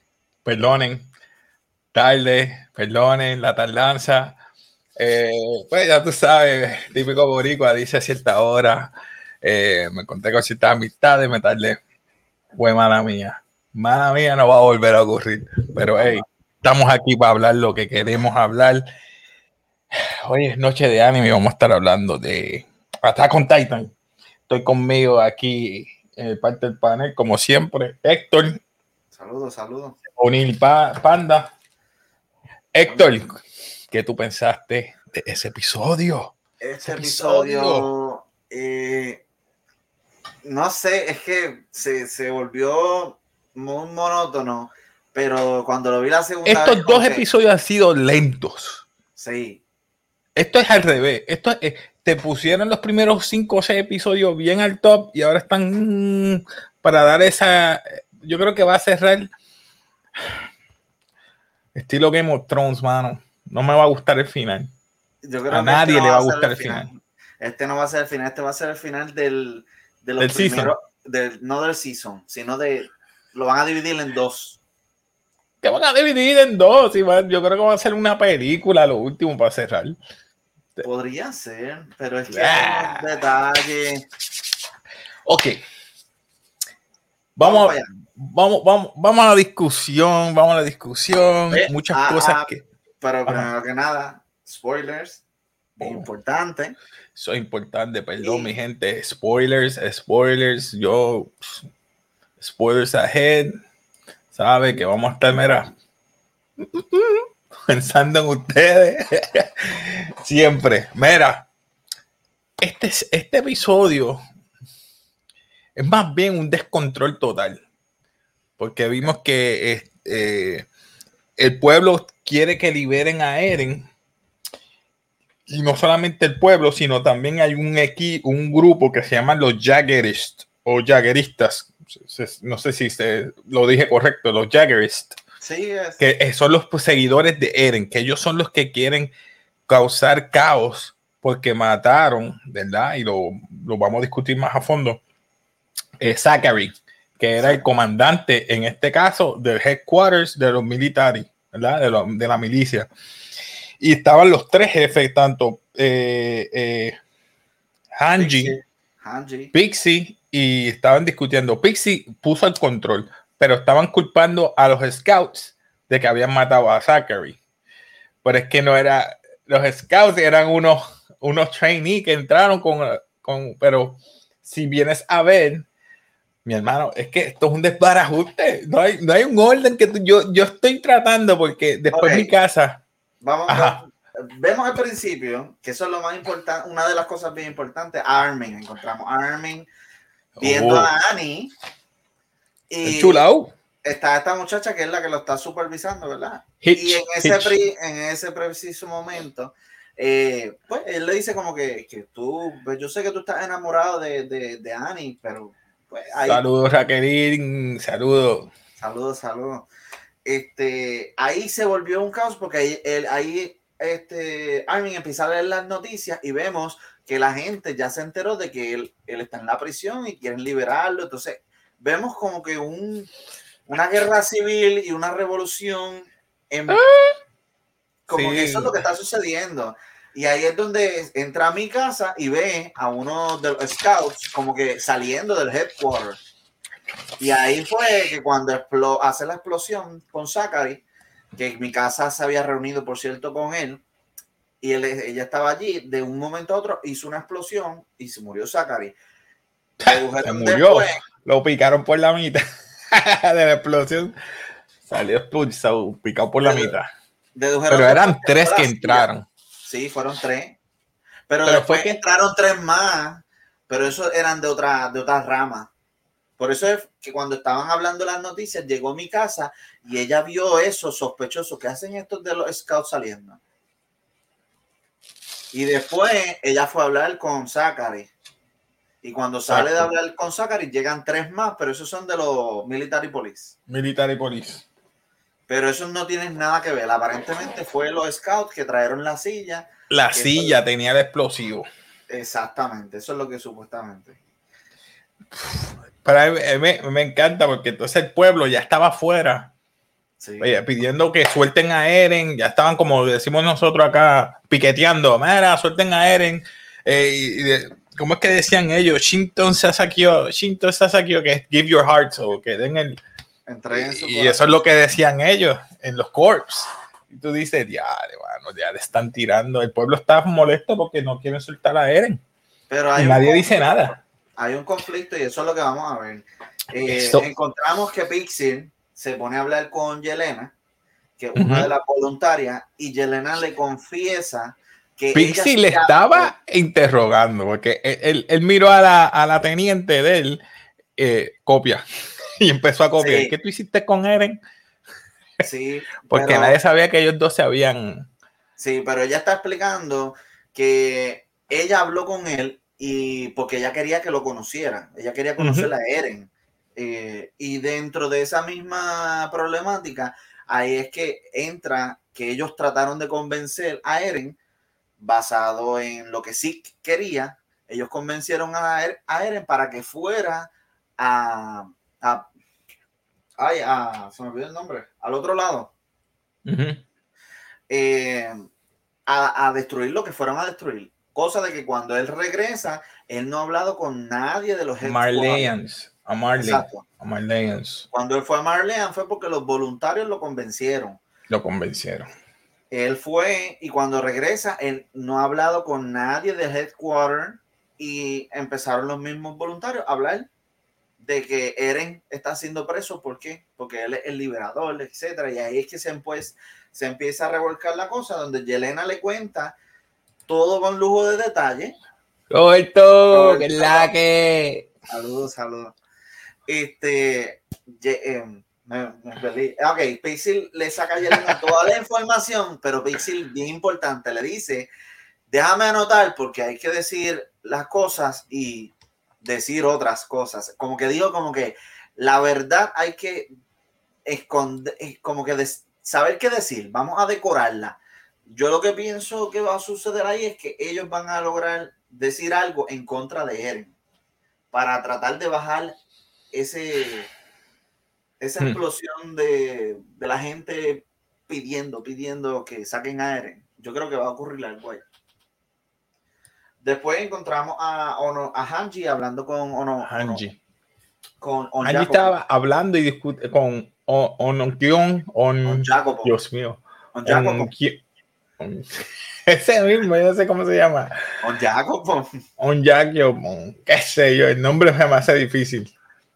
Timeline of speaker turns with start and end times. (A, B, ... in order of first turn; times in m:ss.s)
0:00.4-0:01.1 A
0:01.9-0:04.4 A
0:05.0-0:11.8 A
0:12.5-0:18.9 A
0:19.9-0:23.9 A
0:24.5-0:28.6 A
0:29.1-0:30.0 B
0:30.2-0:31.5 A
0:32.7-0:33.3 A
0:32.8-0:33.1 B
0:33.9-0:37.9 A
0:36.6-0:39.2 B
0:40.4-0:47.2 B
0:46.4-0:48.8 A
0:49.2-0:49.6 B
0:50.4-0:59.3 A
1:01.7-1:04.7 A
1:05.2-1:14.6 B
1:05.5-1:06.9 A
1:10.2-1:10.7 A
1:15.6-1:20.0 A
1:20.8-1:24.0 B
1:22.3-1:23.0 A
1:25.2-1:25.6 A
1:27.4-1:32.6 A
1:27.4-1:27.9 B
1:31.5-1:35.2 B
1:35.8-1:36.8 B
1:35.8-1:36.1 A
1:37.1-1:41.6 A
1:38.2-1:38.5 B
1:42.4-1:43.6 A
1:44.3-1:45.7 A
1:46.6-1:51.5 A
1:52.6-1:54.2 A
1:55.8-1:57.6 A
1:58.6-2:00.7 A
2:01.4-2:03.9 A
2:05.5-2:15.2 A
2:15.4-2:16.0 B
2:16.0-2:19.1 A
2:19.7-2:25.0 A
2:26.0-2:32.9 A
2:27.4-2:27.6 B
2:33.8-2:37.0 A
2:38.0-2:38.6 A
2:38.2-2:39.5 B
2:39.5-2:47.4 A
2:48.2-2:55.6 A
2:56.4-3:02.8 A
3:01.9-3:02.3 B
3:03.2-3:09.7 B
3:03.5-3:03.8 A
3:10.4-3:10.9 A
3:10.4-3:11.5 B
3:12.7-3:13.2 B
3:12.8-3:13.5 A
3:13.8-3:26.4 B
3:16.6-3:17.6 A
3:26.2-3:28.5 A
3:28.8-3:29.7 B
3:30.2-3:43.1 B
3:43.7-3:46.8 B
3:46.7-3:47.1 A
3:48.1-3:56.2 B
3:48.1-3:48.8 A
3:57.2-4:00.8 B
4:01.4-4:03.8 B
4:04.6-4:08.9 B
4:09.8-4:14.1 A
4:09.8-4:11.0 B
4:14.9-4:16.9 A
4:16.4-4:16.7 B
4:17.3-4:19.1 B
4:17.7-4:19.3 A
4:19.6-4:20.6 B
4:21.3-4:25.7 B
4:21.4-4:22.0 A
4:26.4-4:33.4 B
4:35.5-4:38.1 B
4:39.0-4:43.6 B
4:39.5-4:39.9 A
4:43.7-4:44.6 A
4:45.5-4:50.6 B
4:49.9-4:51.7 A
4:52.1-4:54.2 B
4:55.3-4:59.5 A
5:00.2-5:00.6 B
5:00.4-5:13.0 A
5:13.5-5:14.6 B
5:13.7-5:22.2 A
5:22.7-5:30.5 B
5:23.0-5:23.9 A
5:26.9-5:27.3 A
5:31.2-5:36.3 B
5:31.4-5:31.7 A
5:35.1-5:40.4 A
5:41.0-5:41.8 A
5:42.4-5:44.4 A
5:43.0-5:43.3 B
5:45.4-5:46.6 B
5:46.1-5:48.1 A
5:48.6-6:04.4 B
5:55.4-5:55.7 A
6:05.0-6:12.3 B
6:13.4-6:15.7 B
6:16.4-6:16.8 A
6:17.7-6:18.5 B
6:19.1-6:25.5 B
6:24.8-6:27.8 A
6:26.4-6:26.8 B
6:27.9-6:31.0 B
6:31.3-6:32.1 A
6:32.7-6:40.3 B
6:41.0-6:49.5 B
6:50.3-6:51.8 B
6:52.3-6:54.7 A
6:53.0-6:53.9 B
6:54.9-6:55.7 B
6:56.5-7:04.7 B
7:05.3-7:13.3 B
7:14.0-7:17.8 B
7:18.3-7:23.7 B
7:24.5-7:25.8 B
7:26.3-7:27.1 B
7:28.2-7:34.8 B
7:36.6-7:40.2 B
7:39.8-7:40.4 A
7:41.2-7:42.1 B
7:41.6-7:47.8 A
7:45.4-7:46.1 B
7:46.9-7:47.5 B
7:48.4-7:51.0 A
7:51.2-7:52.1 B
7:52.4-7:55.7 A